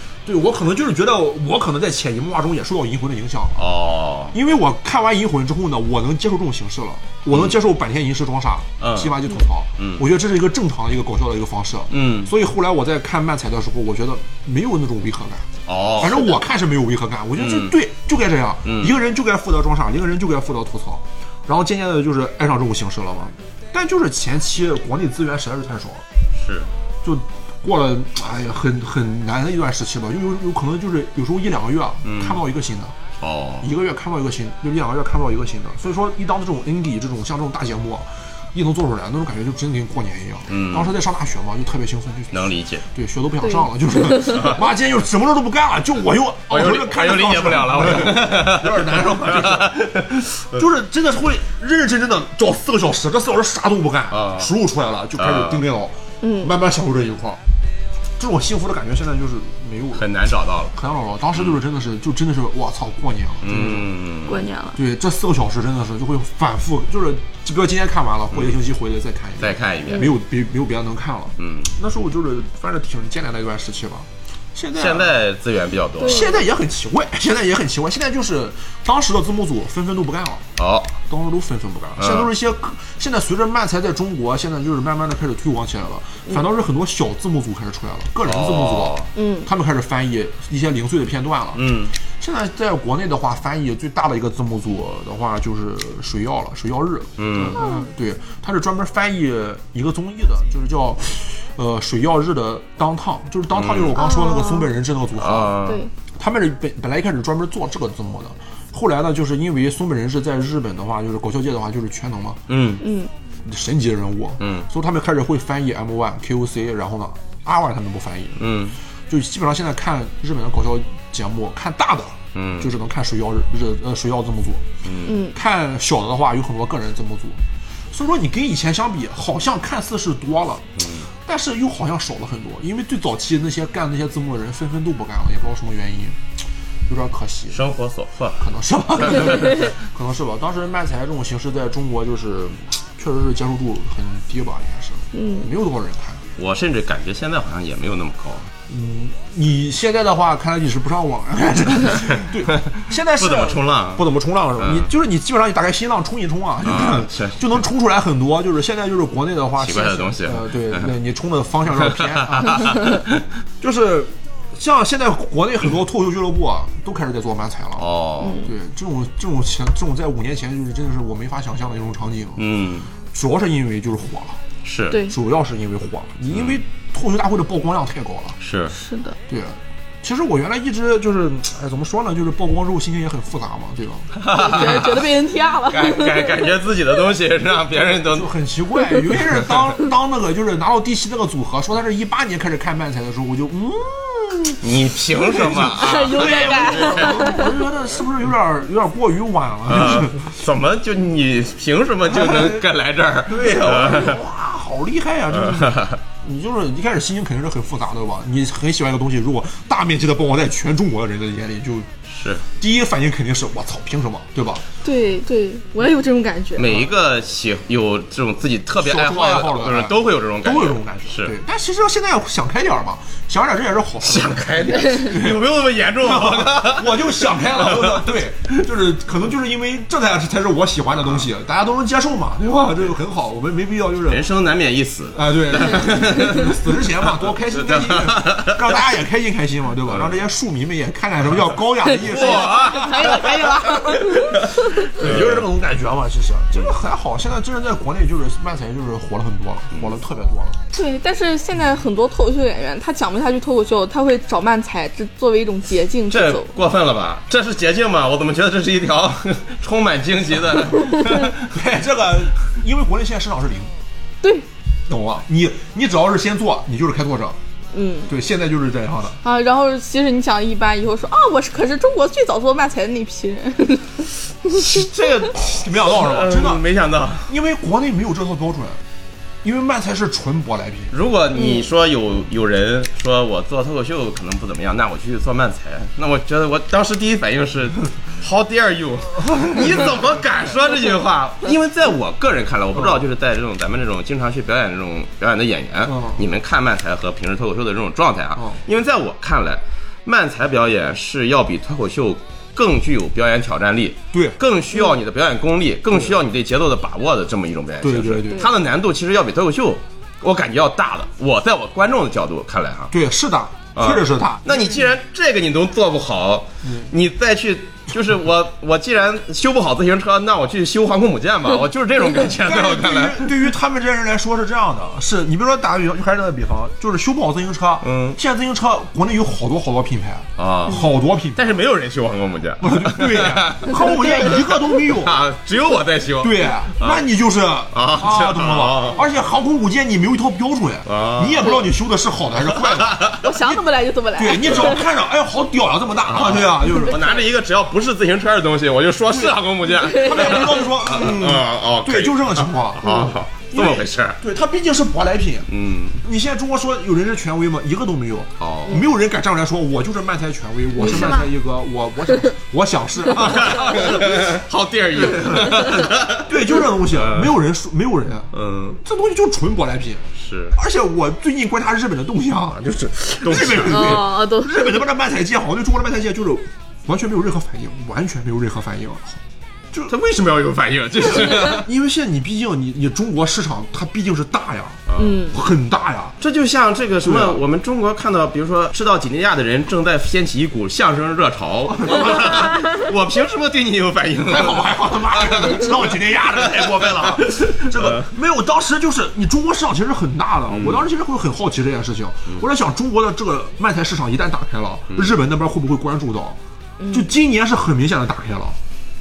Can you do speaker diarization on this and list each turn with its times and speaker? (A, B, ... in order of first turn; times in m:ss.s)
0:00.2-0:03.6 A
0:03.6-0:04.4 B
0:04.3-0:15.5 A
0:07.3-0:07.6 B
0:08.8-0:09.2 B
0:09.8-0:10.0 B
0:11.9-0:12.3 B
0:15.7-0:16.3 B
0:16.0-0:26.0 A
0:17.4-0:17.7 B
0:18.6-0:19.0 B
0:26.4-0:26.7 B
0:27.0-0:32.9 A
0:32.0-0:32.4 B
0:33.2-0:33.7 B
0:33.6-0:49.9 A
0:40.5-0:40.9 B
0:42.3-0:42.8 B
0:44.3-0:44.6 B
0:46.5-0:50.6 B
0:50.5-0:57.4 A
0:54.1-0:54.5 B
0:55.2-0:55.6 B
0:56.2-0:56.5 C
0:58.2-1:00.1 A
0:59.9-1:00.7 B
1:00.7-1:03.9 A
1:03.4-1:04.4 B
1:04.3-1:04.8 C
1:04.7-1:15.2 A
1:08.3-1:08.6 B
1:09.4-1:10.1 B
1:11.4-1:11.7 B
1:14.7-1:16.3 B
1:16.0-1:16.4 C
1:16.0-1:20.4 A
1:20.6-1:20.9 B
1:21.1-1:45.6 A
1:22.0-1:22.3 B
1:28.2-1:29.1 B
1:29.1-1:29.5 C
1:31.5-1:31.9 B
1:37.2-1:37.6 B
1:37.5-1:37.9 C
1:43.5-1:44.0 B
1:43.9-1:44.7 C
1:45.2-1:45.8 B
1:46.2-1:52.4 A
1:52.5-1:52.8 B
1:52.8-1:53.1 C
1:53.4-1:58.6 A
1:54.4-1:54.7 B
1:58.4-1:58.8 B
1:59.1-2:04.7 A
2:02.3-2:02.7 B
2:04.8-2:05.2 B
2:05.1-2:05.4 C
2:05.2-2:07.4 A
2:07.9-2:16.2 A
2:10.8-2:11.1 B
2:16.9-2:17.6 A
2:17.5-2:18.4 B
2:18.4-2:26.2 A
2:18.9-2:19.7 B
2:25.1-2:25.5 C
2:26.4-2:28.5 B
2:28.7-2:42.8 A
2:33.2-2:34.0 B
2:34.6-2:34.9 B
2:36.6-2:37.5 B
2:39.6-2:40.9 B
2:41.8-2:43.2 B
2:43.6-2:47.8 A
2:47.8-2:48.4 B
2:48.2-2:48.5 C
2:48.4-2:52.4 A
2:52.4-2:52.9 B
2:53.1-2:54.4 A
2:54.6-2:55.0 B
2:54.9-2:55.1 C
2:55.1-2:58.4 A
2:56.3-2:56.6 B
2:58.4-2:58.7 B
2:58.7-2:59.2 C
2:59.3-3:05.0 A
3:04.2-3:05.1 B
3:04.3-3:06.4 C
3:05.6-3:08.3 B
3:08.0-3:20.3 A
3:09.1-3:09.7 B
3:14.6-3:17.4 B
3:15.5-3:17.5 C
3:19.7-3:24.2 B
3:22.0-3:22.6 A
3:23.2-3:31.9 A
3:25.3-3:26.0 B
3:32.1-3:32.4 B
3:32.6-3:34.6 A
3:34.8-3:36.9 C
3:36.6-3:41.3 B
3:38.8-3:54.3 A
3:44.0-3:48.6 B
3:54.1-3:56.7 B
3:55.1-4:03.9 A
3:57.3-3:58.8 B
3:59.9-4:00.1 B
4:02.0-4:05.5 B
4:02.0-4:04.8 C
4:04.8-4:10.6 A
4:10.7-4:16.5 C
4:16.1-4:21.5 B
4:21.4-4:23.7 A
4:24.9-4:27.4 A
4:27.7-4:28.1 C
4:28.1-4:29.2 A
4:29.2-4:34.9 C
4:34.5-4:37.3 B
4:35.4-4:36.6 A
4:37.2-4:38.8 A
4:39.4-4:40.9 A
4:40.9-5:12.9 B
4:41.3-4:41.6 C
4:49.3-4:49.9 A
4:52.7-4:53.0 A
4:55.8-4:56.2 A
4:58.4-4:58.6 A
5:04.1-5:04.4 A
5:05.9-5:06.2 A
5:07.8-5:08.5 A
5:12.9-5:14.9 A
5:13.8-5:23.4 B
5:16.6-5:16.9 A
5:22.4-5:31.4 A
5:27.8-5:28.2 B
5:30.4-5:37.0 B
5:32.6-5:35.2 A
5:36.2-5:43.6 A
5:37.7-5:39.0 B
5:40.8-5:41.7 B
5:42.4-5:43.2 B
5:43.2-5:44.8 C
5:44.1-5:47.0 A
5:44.4-5:44.8 B
5:46.0-5:54.2 B
5:46.6-5:47.2 C
5:49.1-6:04.4 A
5:49.7-5:50.6 C
5:55.5-5:56.0 B
5:58.4-5:58.8 B
6:00.8-6:01.3 C
6:00.9-6:01.2 B
6:03.1-6:07.4 B
6:04.9-6:19.9 A
6:08.3-6:08.8 B
6:10.2-6:10.6 B
6:13.2-6:14.1 B
6:13.7-6:14.8 C
6:19.9-6:21.7 B
6:21.0-6:26.2 A
6:24.9-6:25.2 B
6:25.0-6:25.4 C
6:26.2-6:38.0 B
6:27.0-6:27.4 A
6:31.7-6:32.6 A
6:34.2-6:46.4 A
6:40.5-6:40.8 B
6:46.8-6:47.1 C
6:46.9-6:48.6 A